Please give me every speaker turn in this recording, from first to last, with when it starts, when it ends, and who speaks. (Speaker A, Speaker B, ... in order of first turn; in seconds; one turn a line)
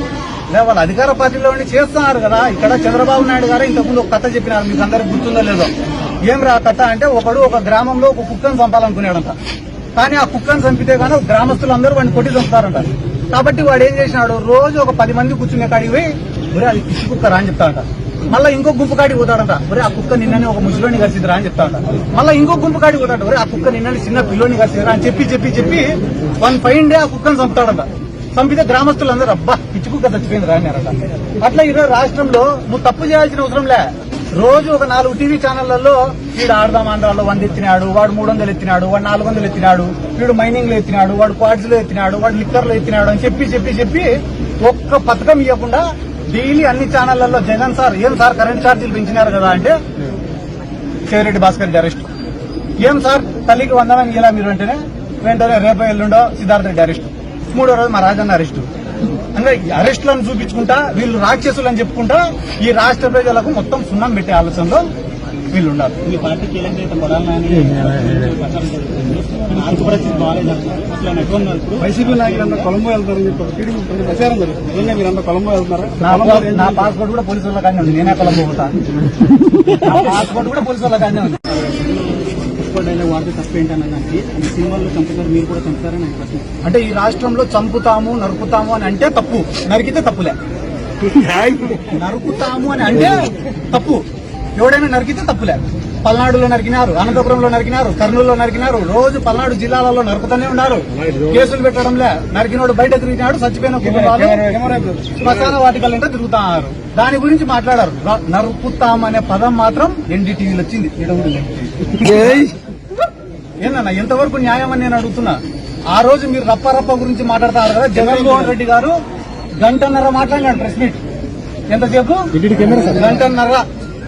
Speaker A: 0.5-5.7
Speaker A: 6.2-9.4
Speaker A: 10.0-49.8
Speaker A: 51.1-52.1
Speaker A: 52.8-58.7
Speaker A: 59.3-64.9
Speaker A: 65.5-66.0
Speaker B: 66.0-71.9
Speaker C: 71.8-76.9
Speaker A: 76.0-78.8
Speaker A: 79.8-81.5
Speaker B: 82.4-86.5
Speaker A: 86.6-90.4
Speaker A: 91.9-94.1
Speaker A: 94.6-104.5
Speaker C: 103.8-105.2
Speaker A: 105.2-112.4
Speaker C: 112.0-112.4
Speaker A: 113.6-119.0
Speaker C: 118.0-118.5
Speaker A: 119.6-121.0
Speaker A: 121.7-123.6
Speaker C: 122.4-123.0